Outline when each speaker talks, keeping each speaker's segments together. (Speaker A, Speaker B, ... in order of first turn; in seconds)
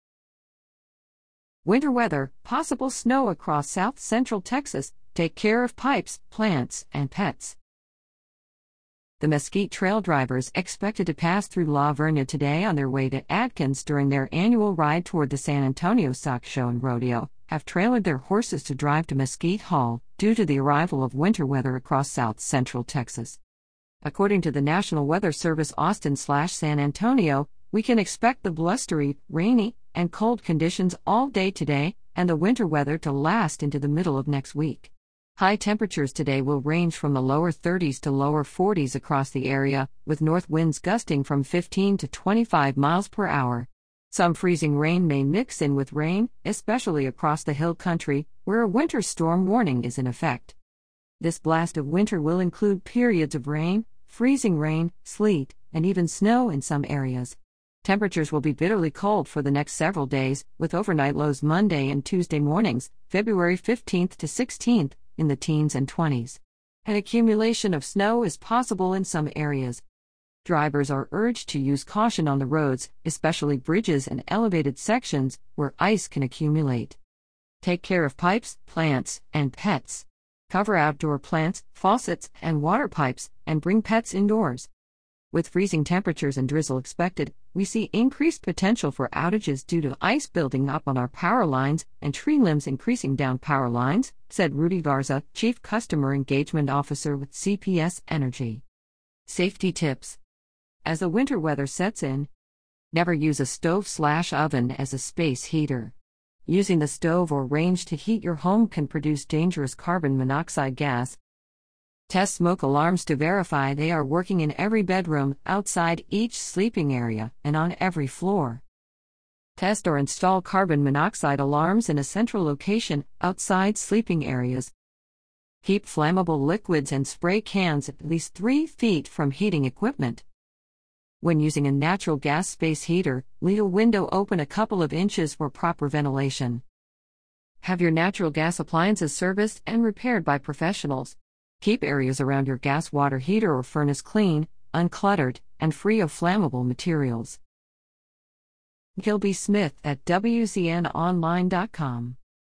Speaker A: 1.6-7.6, 9.2-23.4, 24.0-50.6, 51.2-69.8, 70.5-77.0, 77.6-84.7, 85.3-98.6, 99.3-100.2, 100.8-102.3, 102.9-106.0, 106.5-111.2, 112.1-118.6, 119.6-124.7, 125.6-130.2, 131.2-136.6, 137.6-147.4, 149.0-152.2